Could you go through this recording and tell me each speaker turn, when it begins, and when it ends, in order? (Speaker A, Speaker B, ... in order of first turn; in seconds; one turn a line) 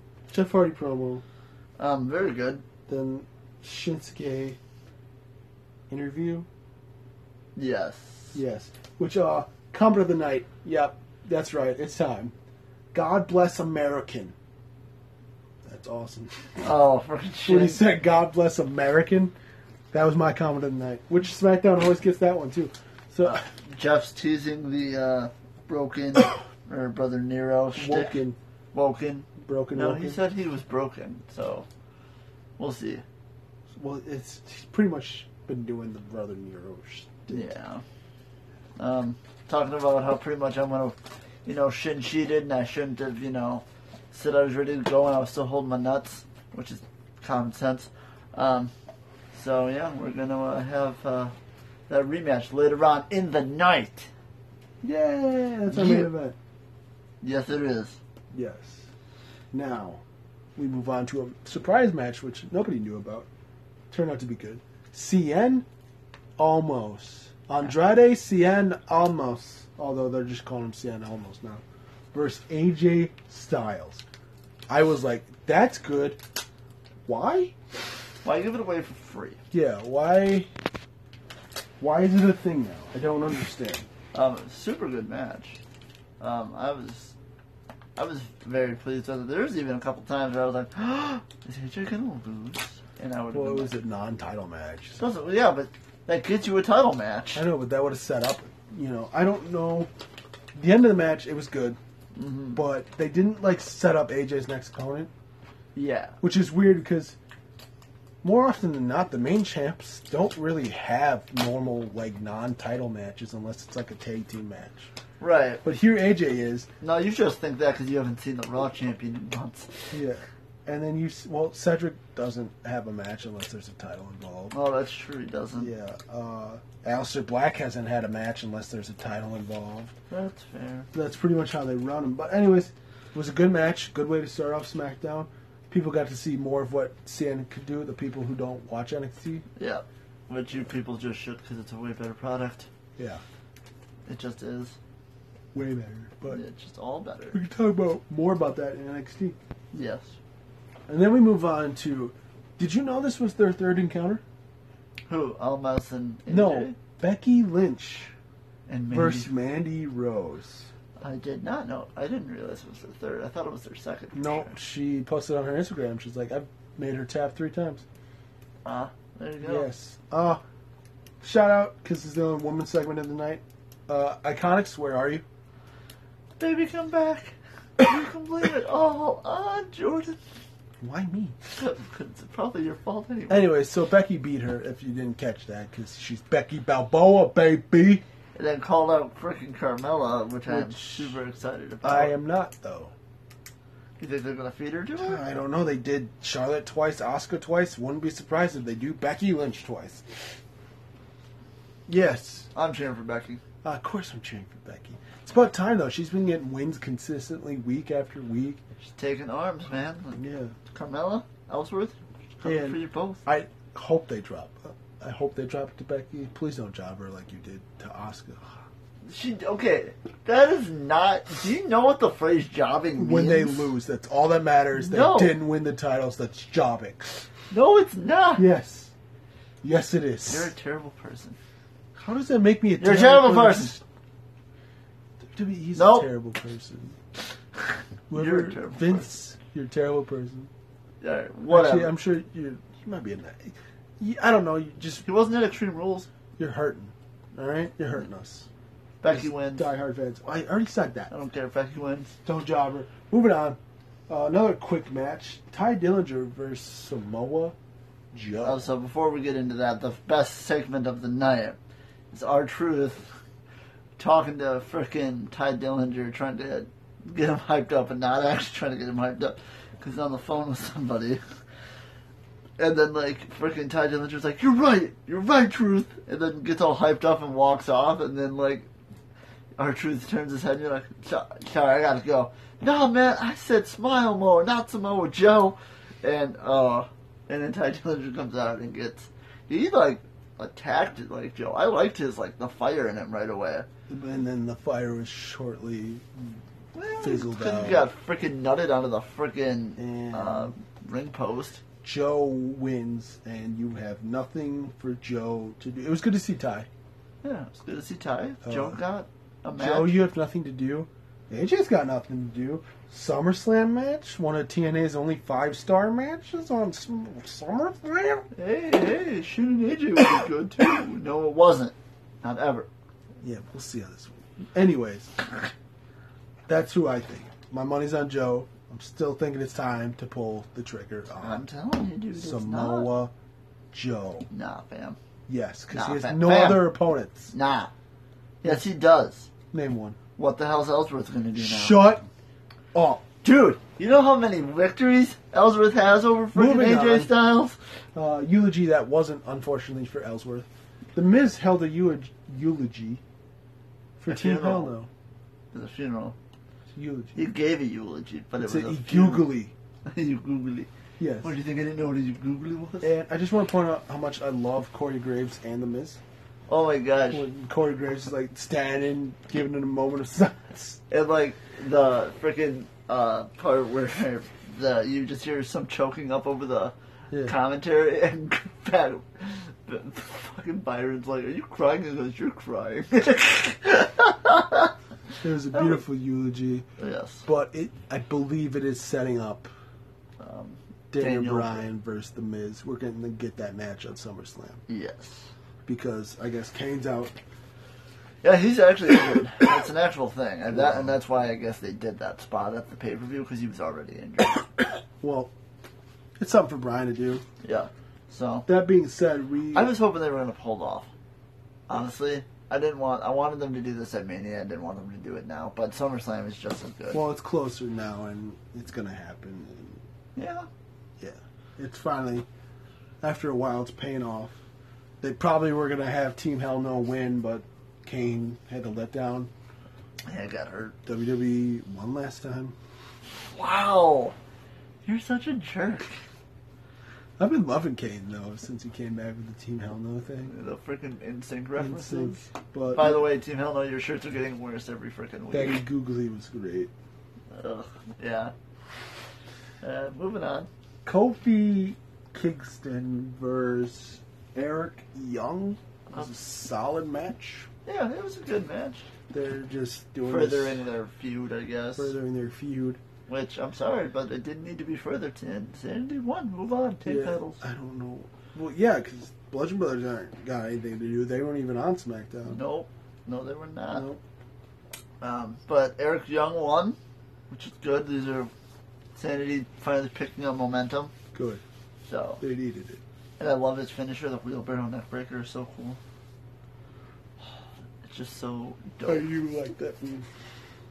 Speaker A: 0.3-1.2
Speaker B: 1.8-2.6
Speaker A: 2.9-4.6
Speaker A: 5.9-6.5
Speaker B: 7.5-8.4
Speaker A: 8.3-12.3
Speaker A: 12.9-14.3
Speaker A: 15.6-16.5
Speaker B: 16.6-17.8
Speaker A: 17.4-19.3
Speaker A: 19.9-23.4
Speaker B: 23.2-28.2
Speaker A: 27.8-28.4
Speaker B: 28.7-31.6
Speaker A: 29.4-30.2
Speaker B: 32.6-33.0
Speaker A: 33.7-37.5
Speaker B: 37.3-37.8
Speaker B: 38.8-48.7
Speaker B: 49.3-51.3
Speaker B: 51.9-54.1
Speaker A: 54.8-56.4
Speaker B: 55.7-56.1
Speaker B: 57.2-58.0
Speaker A: 58.3-58.9
Speaker A: 59.5-60.0
Speaker A: 60.5-63.3
Speaker A: 63.9-65.7
Speaker A: 66.4-74.0
Speaker A: 74.7-76.2
Speaker A: 77.0-77.5
Speaker B: 78.2-79.4
Speaker A: 79.5-80.5
Speaker A: 81.8-83.9
Speaker B: 84.1-85.6
Speaker B: 86.2-87.1
Speaker B: 88.0-93.7
Speaker A: 93.3-95.0
Speaker B: 95.0-97.4
Speaker A: 97.3-99.9
Speaker A: 100.5-101.8
Speaker B: 102.1-102.6
Speaker A: 102.5-105.1
Speaker B: 105.7-106.2
Speaker A: 106.2-107.2
Speaker A: 108.2-114.9
Speaker B: 115.2-115.6
Speaker A: 115.6-116.7
Speaker B: 116.8-119.9
Speaker A: 119.9-124.5
Speaker B: 124.5-125.7
Speaker A: 125.5-129.9
Speaker B: 130.1-130.9
Speaker A: 130.9-139.4
Speaker B: 139.6-142.7
Speaker A: 143.0-143.2
Speaker B: 144.1-144.8
Speaker A: 145.5-146.4
Speaker B: 146.3-147.4
Speaker A: 147.3-149.4
Speaker B: 149.7-150.1
Speaker A: 150.9-154.2
Speaker B: 155.1-156.8
Speaker A: 156.3-158.1
Speaker B: 158.7-159.3
Speaker A: 158.9-160.7
Speaker B: 161.0-164.5
Speaker A: 164.1-167.8
Speaker B: 168.6-169.7
Speaker A: 169.4-170.4
Speaker A: 171.2-175.2
Speaker B: 176.4-180.2
Speaker A: 180.8-181.4
Speaker B: 181.5-183.5
Speaker A: 183.3-188.0
Speaker B: 188.3-192.2
Speaker A: 190.5-191.2
Speaker A: 191.8-192.9
Speaker B: 194.0-195.2
Speaker A: 195.0-200.1
Speaker A: 201.9-202.5
Speaker B: 202.5-203.4
Speaker A: 203.6-208.6
Speaker B: 208.8-213.2
Speaker A: 210.2-210.6
Speaker A: 212.4-218.6
Speaker B: 219.1-223.7
Speaker A: 223.0-227.1
Speaker B: 224.7-225.4
Speaker B: 227.5-228.4
Speaker A: 228.3-228.9
Speaker A: 229.6-230.5
Speaker B: 230.3-231.4
Speaker A: 231.9-233.8
Speaker B: 232.8-233.8
Speaker A: 235.3-237.0
Speaker B: 235.7-236.1
Speaker A: 238.1-240.5
Speaker B: 238.1-239.1
Speaker B: 241.0-241.9
Speaker A: 241.5-245.0
Speaker B: 245.0-246.1
Speaker A: 246.4-248.5
Speaker B: 249.0-249.7
Speaker A: 249.1-251.1
Speaker B: 251.1-252.1
Speaker A: 252.2-253.6
Speaker A: 254.1-257.5
Speaker A: 258.1-258.7
Speaker B: 258.4-261.6
Speaker B: 262.1-263.1
Speaker B: 264.0-271.2
Speaker B: 272.6-278.7
Speaker B: 279.6-293.7
Speaker A: 293.9-296.4
Speaker B: 296.7-301.6
Speaker A: 297.0-297.9
Speaker A: 299.8-300.5
Speaker A: 301.8-306.7
Speaker B: 307.2-310.0
Speaker A: 308.4-308.8
Speaker A: 309.6-318.3
Speaker B: 318.3-322.7
Speaker A: 323.2-325.2
Speaker A: 326.5-331.4
Speaker B: 331.2-332.9
Speaker A: 332.1-333.1
Speaker A: 333.7-334.3
Speaker B: 334.3-335.0
Speaker A: 335.3-337.3
Speaker B: 335.7-336.7
Speaker B: 337.3-337.7
Speaker B: 338.4-339.3
Speaker A: 339.5-340.0
Speaker B: 340.2-341.9
Speaker A: 341.4-342.1
Speaker A: 342.7-343.0
Speaker B: 343.2-347.6
Speaker A: 346.3-347.1
Speaker A: 347.9-353.0
Speaker A: 354.0-354.9
Speaker B: 354.1-354.7
Speaker B: 355.5-356.1
Speaker A: 356.7-357.2
Speaker B: 357.1-359.3
Speaker A: 358.4-359.5
Speaker B: 359.9-360.7
Speaker A: 361.0-361.3
Speaker B: 361.2-362.9
Speaker A: 362.8-366.0
Speaker B: 366.5-367.2
Speaker A: 367.1-370.8
Speaker B: 370.9-376.7
Speaker B: 377.2-385.8
Speaker A: 385.2-386.6
Speaker B: 386.8-387.2
Speaker A: 387.2-389.5
Speaker B: 390.2-391.6
Speaker A: 390.9-394.6
Speaker B: 394.7-395.3
Speaker A: 395.7-397.1
Speaker B: 398.2-404.5
Speaker A: 400.5-400.9
Speaker A: 405.0-405.3
Speaker A: 406.2-407.2
Speaker B: 407.4-408.4
Speaker A: 408.4-409.7
Speaker B: 409.5-410.9
Speaker B: 411.7-417.0
Speaker A: 416.9-419.8
Speaker B: 420.1-420.5
Speaker A: 421.0-422.3
Speaker A: 423.0-424.4
Speaker A: 425.0-429.3
Speaker B: 430.1-430.7
Speaker A: 430.9-432.5
Speaker B: 433.3-434.1
Speaker B: 434.8-436.0
Speaker A: 437.2-440.3
Speaker B: 440.2-445.6
Speaker A: 441.6-443.0
Speaker A: 445.3-446.7
Speaker B: 447.3-448.3
Speaker B: 449.6-450.5
Speaker A: 450.8-457.5
Speaker B: 457.6-458.9
Speaker A: 459.1-460.6
Speaker B: 460.1-461.9
Speaker A: 461.8-462.8
Speaker B: 463.1-467.4
Speaker A: 466.8-472.4
Speaker B: 472.3-473.9
Speaker A: 473.7-474.0
Speaker B: 475.0-476.8
Speaker B: 477.3-478.3
Speaker B: 478.9-480.9
Speaker A: 481.1-481.4
Speaker B: 481.8-482.2
Speaker A: 482.2-482.8
Speaker B: 483.2-485.8
Speaker B: 487.8-489.1
Speaker A: 488.8-490.1